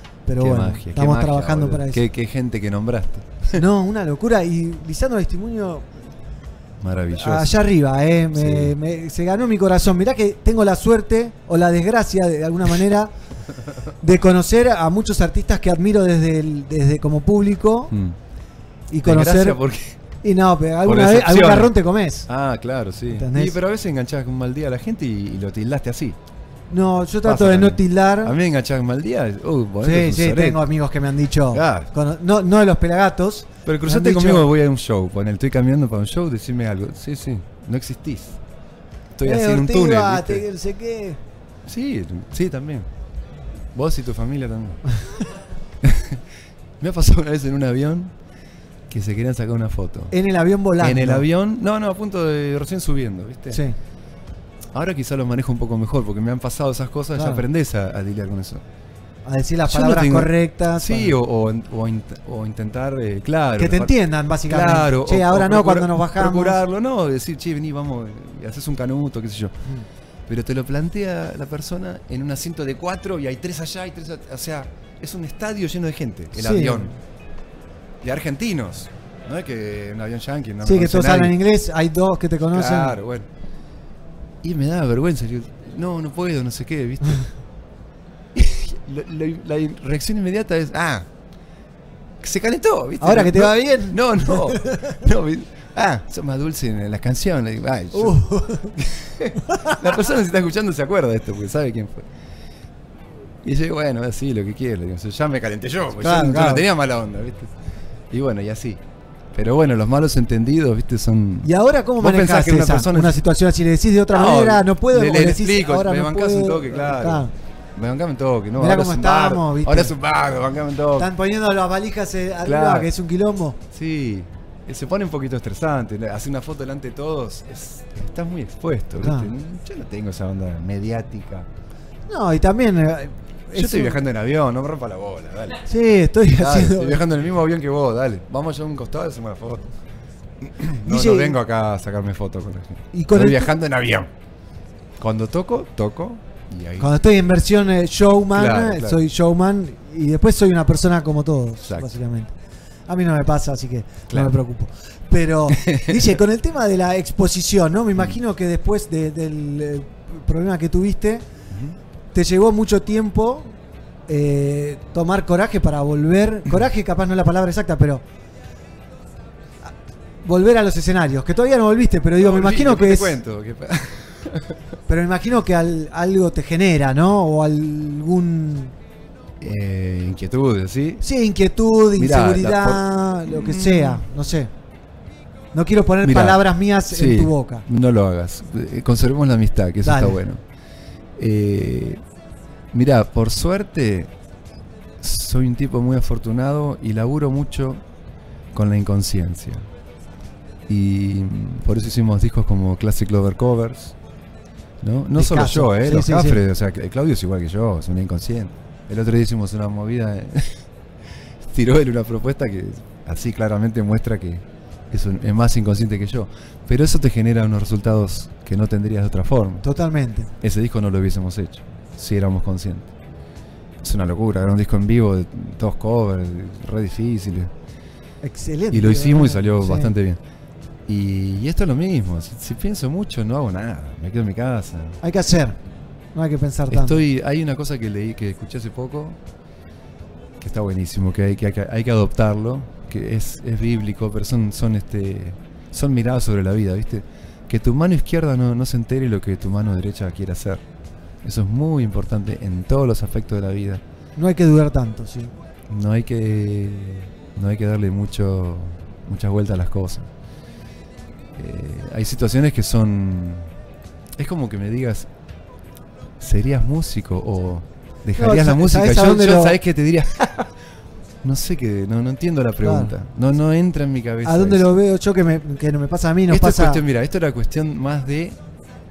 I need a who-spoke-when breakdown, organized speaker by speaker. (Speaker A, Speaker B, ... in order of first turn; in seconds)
Speaker A: 0.3-2.0, 3.5-5.9, 7.1-13.1, 14.0-17.9, 18.9-19.6, 20.2-22.3, 23.1-23.6, 26.7-28.4, 29.8-34.5, 39.2-41.2, 50.1-51.3, 53.5-53.8, 57.2-57.4, 59.2-61.2, 63.6-66.6, 76.3-77.0, 80.6-83.0, 93.0-95.0, 97.9-98.8, 99.5-99.8, 106.0-106.6, 111.4-117.3, 118.6-119.9, 121.0-123.6, 129.0-129.3, 132.1-134.0, 135.7-137.0, 140.8-141.4, 142.9-143.5, 146.8-152.3, 152.9-161.3, 162.1-163.6, 164.1-168.0, 170.2-173.2, 174.9-178.7, 181.0-184.5, 185.5-187.7, 189.8-190.2, 205.2-206.4, 219.6-220.3, 228.2-229.9, 235.0-235.6, 236.1-237.0, 254.2-255.3, 268.2-269.6, 272.6-272.9, 274.2-276.8
Speaker B: 0.4-3.6, 6.8-7.6, 8.3-8.8, 17.9-18.2, 19.0-20.0, 20.8-21.8, 22.3-26.2, 27.2-30.6, 31.5-31.9, 33.7-38.4, 39.1-40.5, 41.7-42.9, 43.7-44.8, 45.8-46.2, 46.8-48.1, 48.9-50.1, 50.8-53.6, 54.7-58.6, 59.6-69.6, 70.3-77.0, 78.0-81.4, 82.5-83.3, 84.4-87.3, 88.3-91.1, 92.2-102.1, 103.4-107.5, 108.1-108.8, 109.3-113.2, 114.1-121.1, 122.4-122.9, 123.7-131.5, 133.5-135.6, 136.3-139.7, 140.4-144.1, 145.0-147.0, 148.3-149.0, 151.6-151.9, 155.5-156.1, 161.5-161.8, 172.2-174.6, 179.4-181.0, 181.9-184.1, 186.0-190.4, 191.2-192.0, 192.7-194.1, 195.0-197.8, 198.5-199.7, 200.7-203.9, 204.8-210.6, 211.4-219.6, 220.4-222.9, 223.8-227.5, 228.7-230.2, 230.9-235.0, 236.7-239.2, 240.4-250.6, 251.2-253.8, 255.7-260.1, 261.4-263.5, 264.2-265.1, 266.2-270.5, 271.2-274.7, 276.3-278.4